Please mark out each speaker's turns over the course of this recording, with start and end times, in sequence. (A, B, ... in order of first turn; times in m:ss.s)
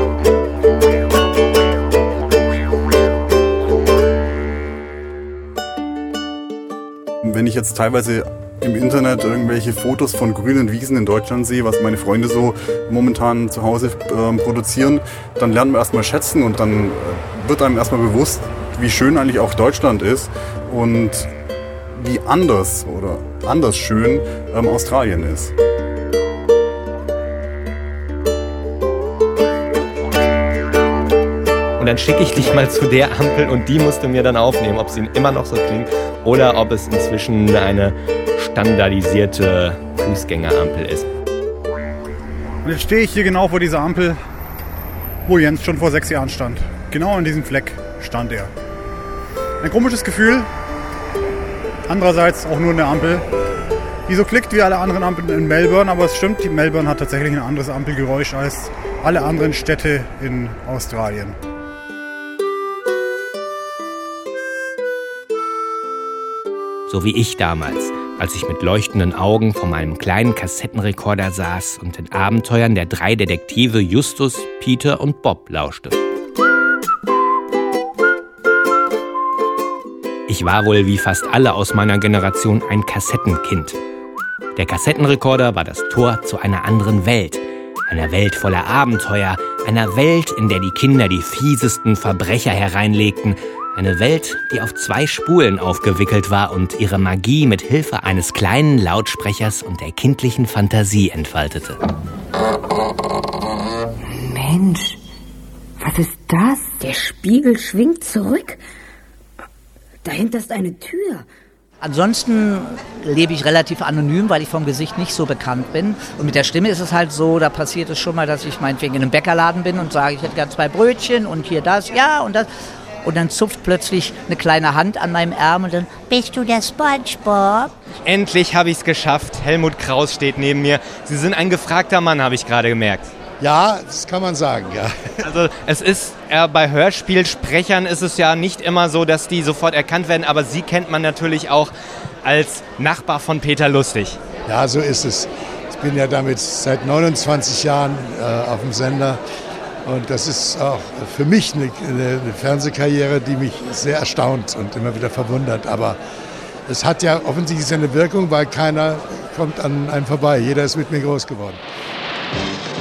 0:07.2-0:21.3 A
0:21.9-0:25.5 A
0:31.8-0:41.1 B
0:42.6-0:44.2 C
0:45.2-0:48.5 C
0:49.6-0:50.5 C
0:51.9-0:53.2 C
0:54.1-1:01.4 C
1:06.9-1:16.0 B
1:20.3-1:23.8 B
1:24.5-1:41.8 B
1:44.2-1:45.0 D
1:45.8-1:48.6 D
1:50.0-1:51.2 D
1:51.8-2:02.5 E
2:03.0-2:07.7 E
2:08.0-2:13.1 B
2:13.4-2:15.1 F
2:15.2-2:24.2 B
2:24.4-2:29.2 F
2:29.8-2:36.0 F
2:36.7-2:41.6 F